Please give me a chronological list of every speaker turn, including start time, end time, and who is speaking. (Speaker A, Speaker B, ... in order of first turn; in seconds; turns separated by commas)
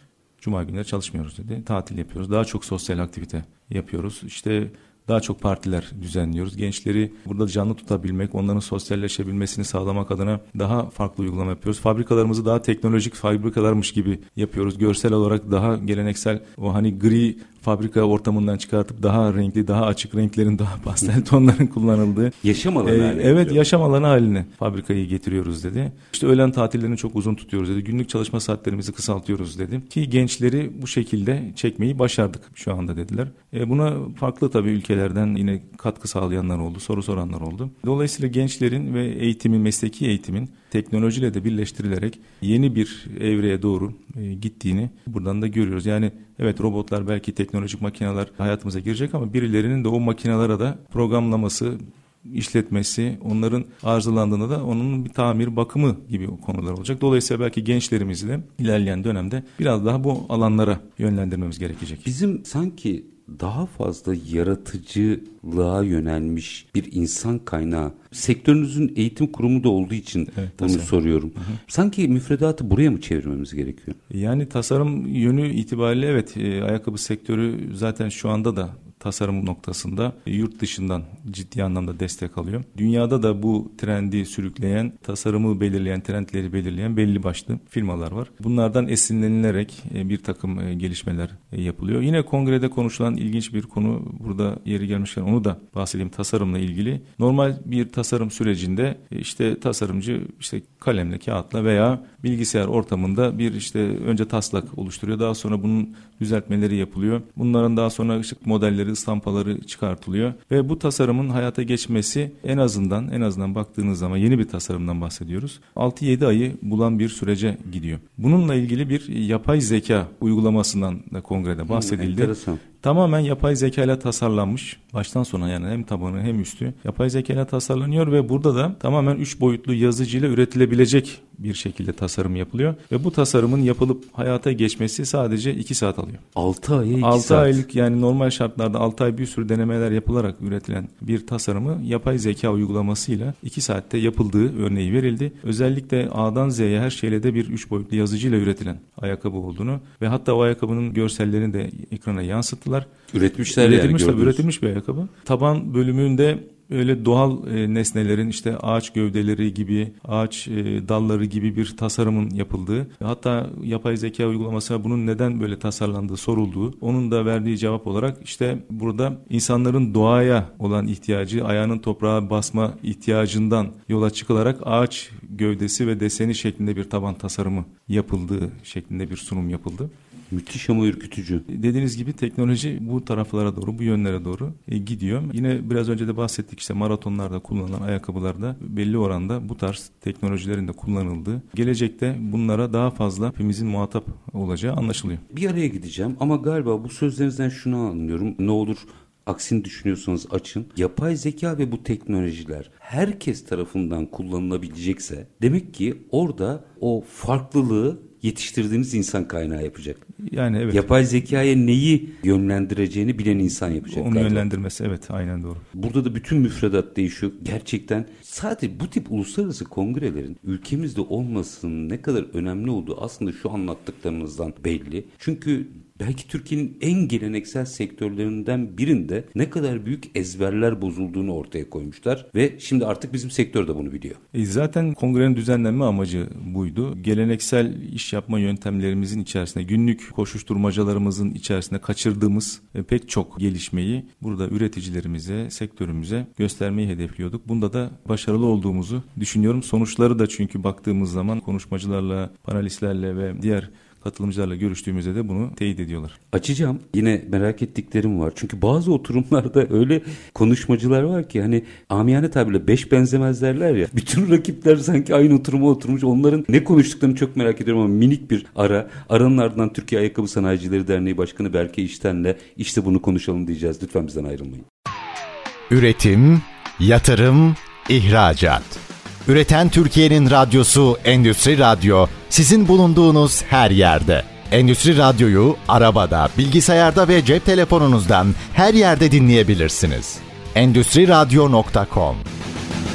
Speaker A: 0.4-62.0, Speaker B: 22.4-23.7, Speaker B: 62.0-74.0, Speaker A: 70.3-71.6, Speaker A: 74.1-136.2, Speaker B: 121.7-122.6, Speaker B: 136.3-137.6, Speaker A: 137.0-152.9, Speaker B: 153.1-154.4, Speaker A: 153.5-179.9, Speaker B: 180.3-181.4, Speaker A: 181.5-195.2, Speaker B: 195.3-210.0, Speaker A: 210.2-211.0, Speaker B: 210.7-214.4, Speaker A: 213.8-215.6, Speaker B: 215.7-234.2, Speaker A: 234.3-256.2, Speaker B: 256.3-274.6, Speaker C: 275.7-292.2